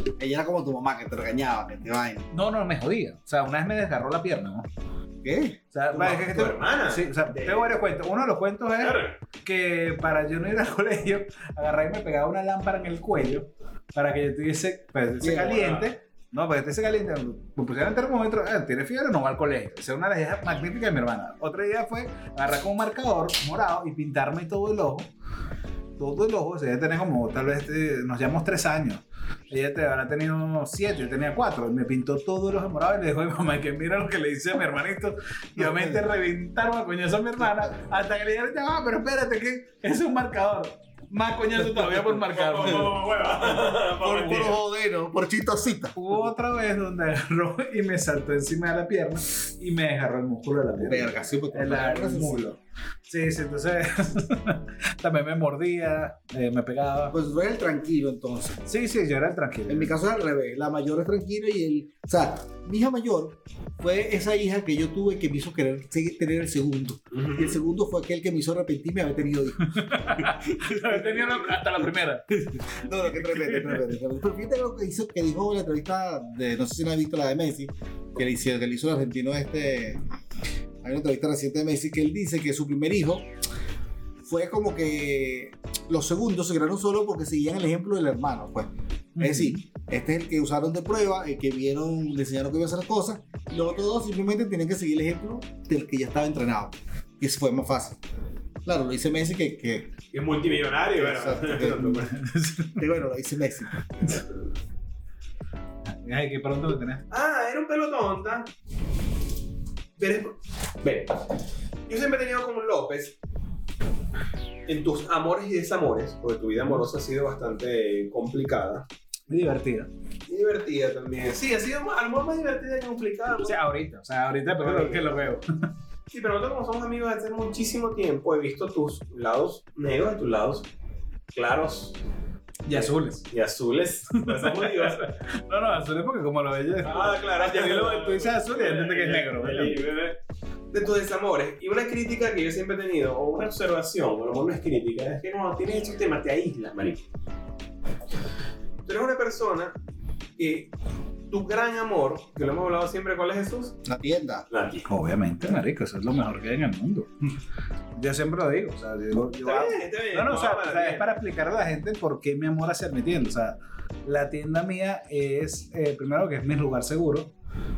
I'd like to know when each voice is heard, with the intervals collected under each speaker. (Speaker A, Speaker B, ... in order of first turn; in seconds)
Speaker A: 0.2-2.3, 5.2-5.6, 15.2-15.6, 35.6-36.0, 43.7-46.0, 50.8-52.5, 57.1-58.6, 59.7-80.0, 80.8-83.3, 84.2-98.0, 98.6-100.0, 100.9-102.1, 102.8-104.2, 153.8-154.4
Speaker B: 2.3-4.7, 5.7-25.1, 26.0-43.0, 46.0-57.1, 58.7-60.0, 69.6-72.3, 72.9-73.9, 89.2-89.6, 102.1-102.8, 106.0-107.0, 119.3-119.9, 123.5-125.5, 132.7-133.2, 134.1-139.8, 154.9-157.3, 158.0-167.3
Speaker C: 5.9-7.7, 8.8-9.2, 15.5-15.9, 42.3-44.6, 67.1-67.6, 100.1-102.1, 107.1-108.5, 110.0-111.2, 111.9-113.2, 114.7-118.9, 120.3-123.6, 124.6-125.2, 126.1-130.7, 131.3-132.0, 132.7-135.0, 136.8-140.2, 140.7-147.1, 148.8-149.8, 150.4-150.7, 151.3-153.8, 154.5-154.9, 159.3-161.1